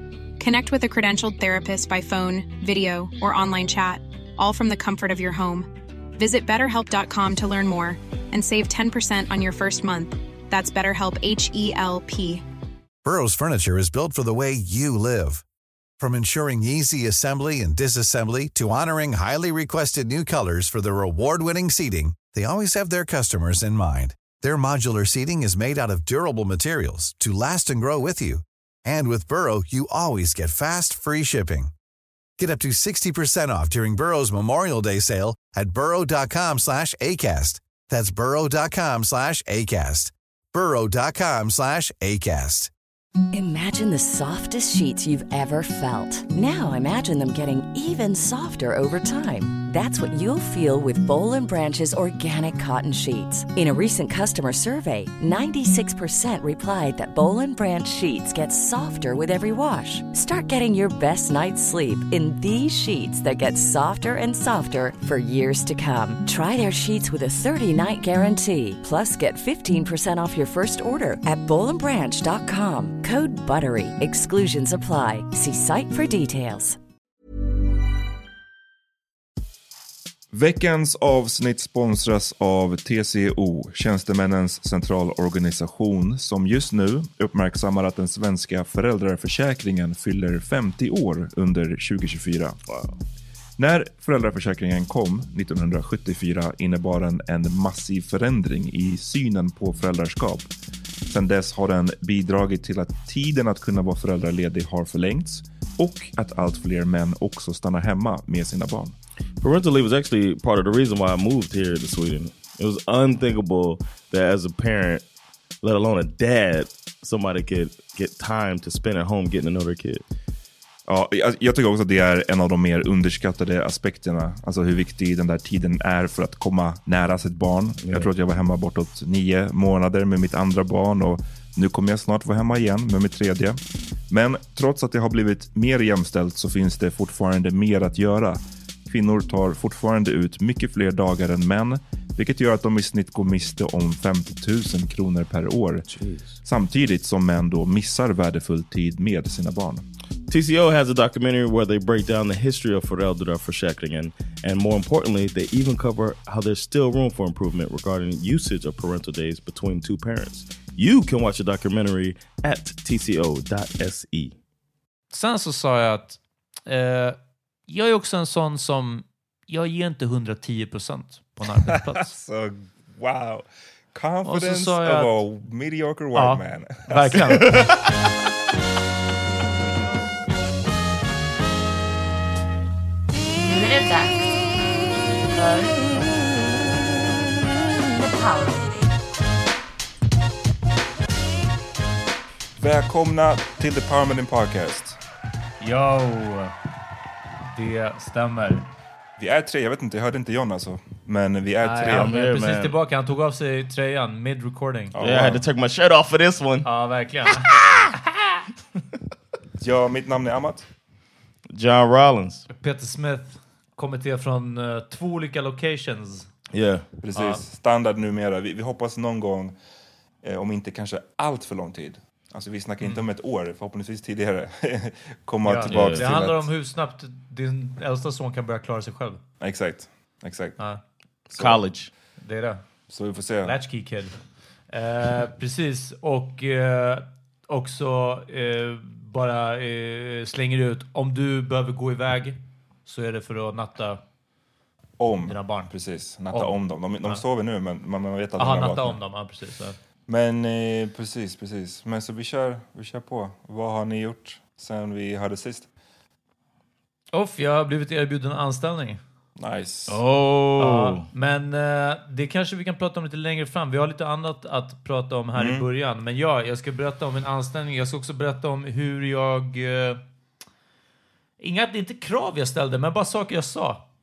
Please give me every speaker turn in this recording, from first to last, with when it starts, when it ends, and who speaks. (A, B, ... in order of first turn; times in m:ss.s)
0:00.4-0:12.4 A
0:13.0-0:15.4 B
0:16.0-0:31.7 B
0:32.4-0:42.7 B
0:43.3-1:16.8 C
1:20.3-1:32.6 D
1:32.7-1:33.0 E
1:33.6-1:40.5 D
1:41.1-1:49.0 D
1:49.4-1:55.1 E
1:55.6-2:00.0 E
2:00.9-2:13.6 D
2:07.8-2:08.1 E
2:14.1-2:25.9 D
2:25.9-2:26.4 E
2:26.4-2:29.9 D
2:30.3-2:44.4 E
2:45.1-2:52.2 F
2:51.7-2:57.5 D
2:54.2-2:55.2 F
2:56.1-2:57.6 F
3:03.4-3:06.1 G
3:08.0-3:08.8 G
3:12.6-3:15.0 D
3:15.6-3:16.5 F
3:17.4-3:18.7 F
3:19.2-3:22.1 D
3:21.6-3:25.0 F
3:21.9-3:22.8 E
3:24.9-3:25.5 D
3:25.0-3:26.7 E
3:26.6-3:27.6 F
3:29.6-3:30.7 D
3:31.5-3:32.5 E
3:32.5-3:36.3 F
3:36.5-3:36.9 E
3:37.0-3:39.6 D
3:37.1-3:37.4 F
3:40.2-3:46.5 D
3:45.4-3:49.2 F
3:45.7-3:46.1 E
3:49.4-3:50.6 D
3:51.3-3:51.9 E
3:51.3-3:51.6 D
3:52.2-3:52.6 F
3:52.9-3:53.6 D
3:53.4-4:04.0 F
4:05.0-4:09.0 D
4:05.2-4:05.7 F
4:06.3-4:07.2 F
4:08.4-4:09.8 F
4:10.1-4:15.7 D
4:17.1-4:19.0 F
4:19.4-4:20.0 D
4:19.9-4:21.1 E
4:20.6-4:30.0 F
4:25.4-4:25.7 D
4:31.4-4:33.8 F